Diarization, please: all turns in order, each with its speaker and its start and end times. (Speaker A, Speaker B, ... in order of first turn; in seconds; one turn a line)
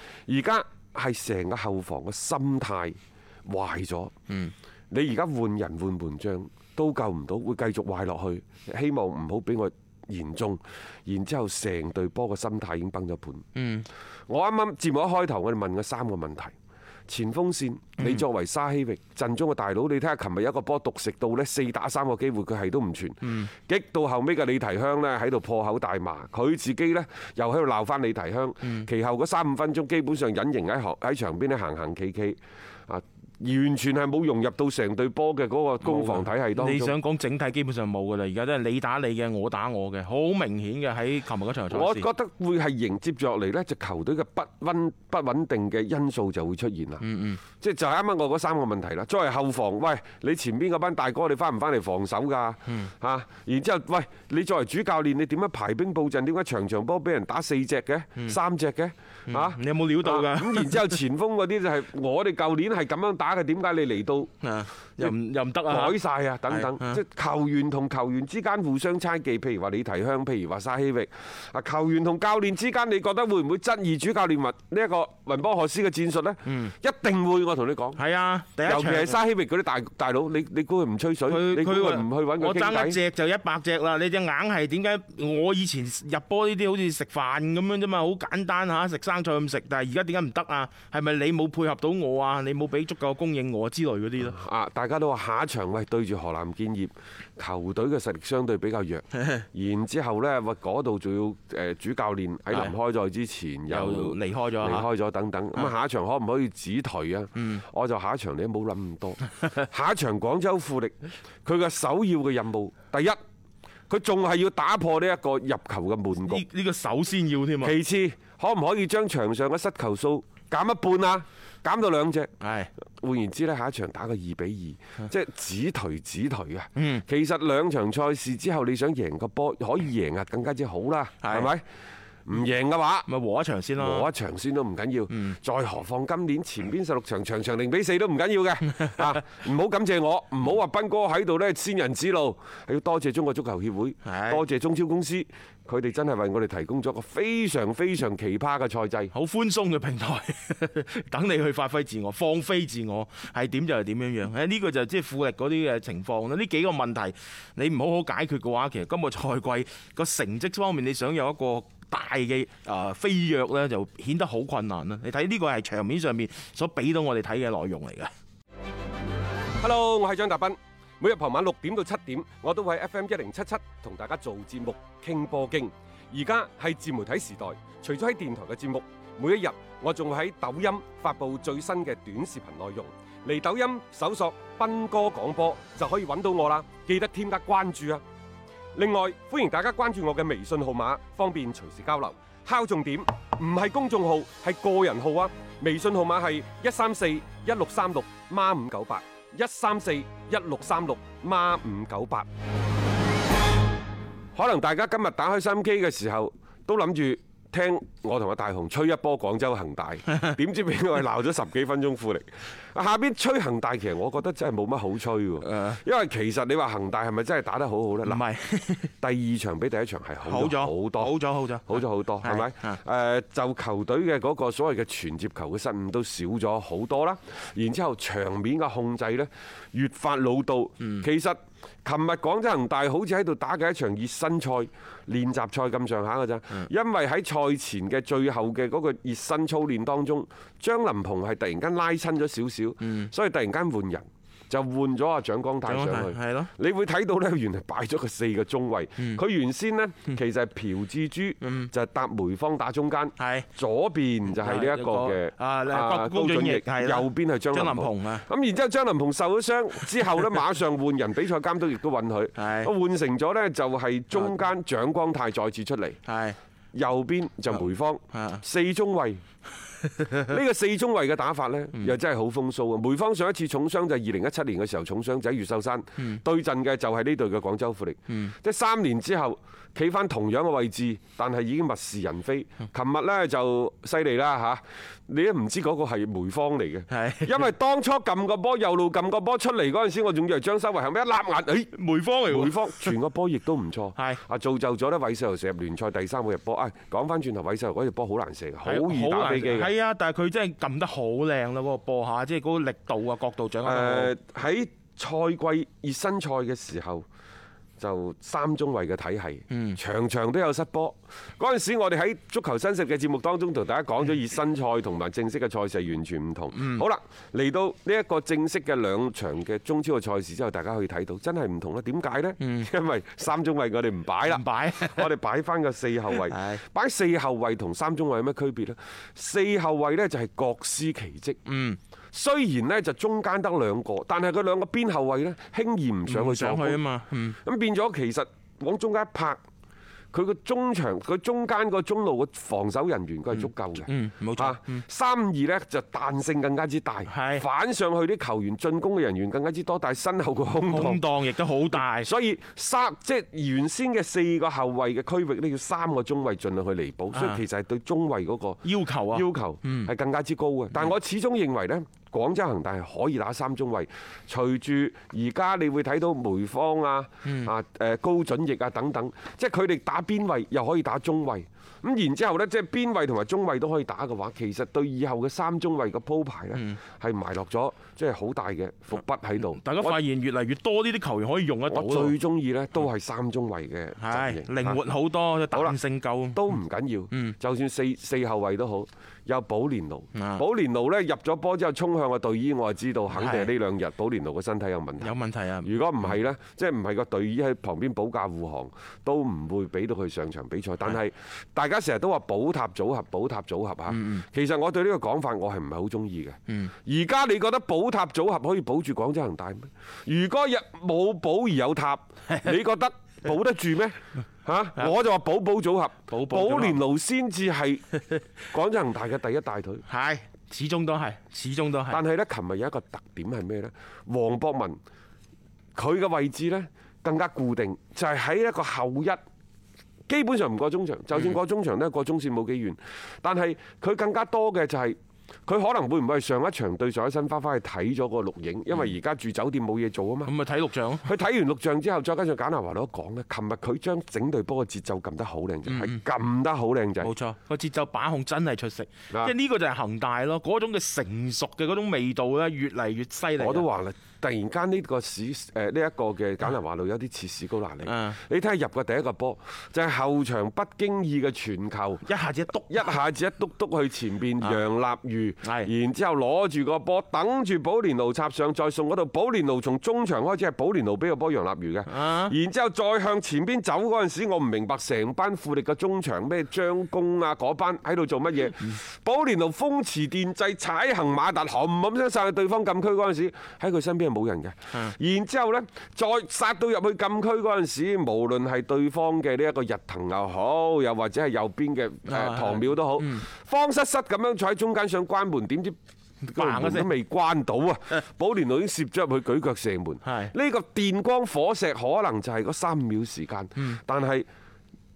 Speaker A: 0.3-4.1
Speaker A: 4.9-13.4
Speaker B: 13.5-13.9
Speaker A: 14.3-16.5
Speaker A: 17.1-36.9
Speaker B: 18.0-18.2
Speaker B: 23.2-23.5
Speaker B: 28.6-28.9
Speaker B: 35.8-42.1
Speaker A: 41.7-47.0
Speaker B: 47.0-47.4
Speaker A: 47.6-64.3
Speaker B: 59.3-61.0
Speaker B: 64.4-66.0
Speaker A: 65.7-78.0
Speaker B: 66.5-67.0
Speaker B: 76.5-76.7
Speaker B: 78.0-79.2
Speaker A: 78.6-83.0
Speaker B: 81.3-94.4
Speaker A: 94.2-113.2
Speaker B: 103.7-104.9
Speaker B: 107.4-107.6
Speaker A: 113.9-116.4
Speaker B: 116.2-117.8
Speaker A: 117.6-122.3
Speaker B: 122.4-122.7
Speaker A: 123.0-131.6
Speaker B: 126.8-127.0
Speaker B: 131.2-131.5
Speaker A: 132.2-133.1
Speaker B: 133.1-134.1
Speaker A: 133.8-149.1
Speaker B: 138.8-139.2
Speaker B: 144.0-144.4
Speaker B: 149.1-168.1
Speaker A: 169.6-188.0
Speaker A: 188.8-202.2
Speaker A: 204.3-218.2
Speaker B: 215.4-215.8
Speaker B: 218.0-218.9
Speaker A: 219.0-221.2
Speaker B: 220.2-222.8
Speaker A: 221.7-266.0
Speaker B: 230.8-231.1
Speaker B: 242.8-243.1
Speaker B: 245.7-246.5
Speaker B: 251.4-251.7
Speaker B: 253.2-253.5
Speaker B: 254.4-258.2
Speaker B: 262.4-262.7
Speaker B: 266.0-266.4
Speaker A: 266.7-269.2
Speaker B: 268.1-268.4
Speaker B: 269.8-270.4
Speaker A: 270.2-291.7
Speaker B: 278.1-278.3
Speaker B: 286.9-287.5
Speaker B: 291.7-292.9
Speaker A: 292.3-299.7
Speaker B: 298.6-304.1
Speaker A: 303.6-307.0
Speaker A: 307.8-331.4
Speaker B: 309.5-309.8
Speaker B: 316.5-316.8
Speaker B: 322.4-322.7
Speaker B: 324.2-325.1
Speaker B: 326.1-326.6
Speaker B: 331.4-331.8
Speaker A: 332.1-336.8
Speaker B: 336.1-337.4
Speaker A: 337.4-339.4
Speaker A: 340.1-351.1
Speaker B: 343.3-344.8
Speaker B: 347.1-347.4
Speaker B: 350.7-352.1
Speaker A: 351.7-380.0
Speaker B: 357.1-357.4
Speaker B: 358.6-359.9
Speaker B: 367.2-367.5
Speaker B: 379.5-382.1
Speaker A: 381.7-384.8
Speaker B: 384.0-386.5
Speaker A: 385.5-385.8
Speaker A: 386.4-417.9
Speaker B: 387.1-387.4
Speaker B: 390.1-390.4
Speaker B: 393.1-393.5
Speaker B: 395.0-396.1
Speaker B: 403.9-404.2
Speaker B: 416.1-416.8
Speaker A: 418.5-419.8
Speaker B: 419.9-422.0
Speaker A: 421.9-424.8
Speaker A: 425.8-429.2
Speaker A: 430.1-440.3
Speaker B: 440.2-441.1
Speaker A: 441.0-447.1
Speaker B: 445.6-446.0
Speaker B: 447.0-453.7
Speaker A: 453.4-462.0
Speaker B: 457.8-458.2
Speaker B: 462.0-462.9
Speaker A: 462.7-495.8
Speaker B: 465.4-465.7
Speaker B: 471.9-472.4
Speaker B: 492.1-493.2
Speaker B: 496.2-496.9
Speaker A: 496.3-504.3
Speaker B: 500.0-500.3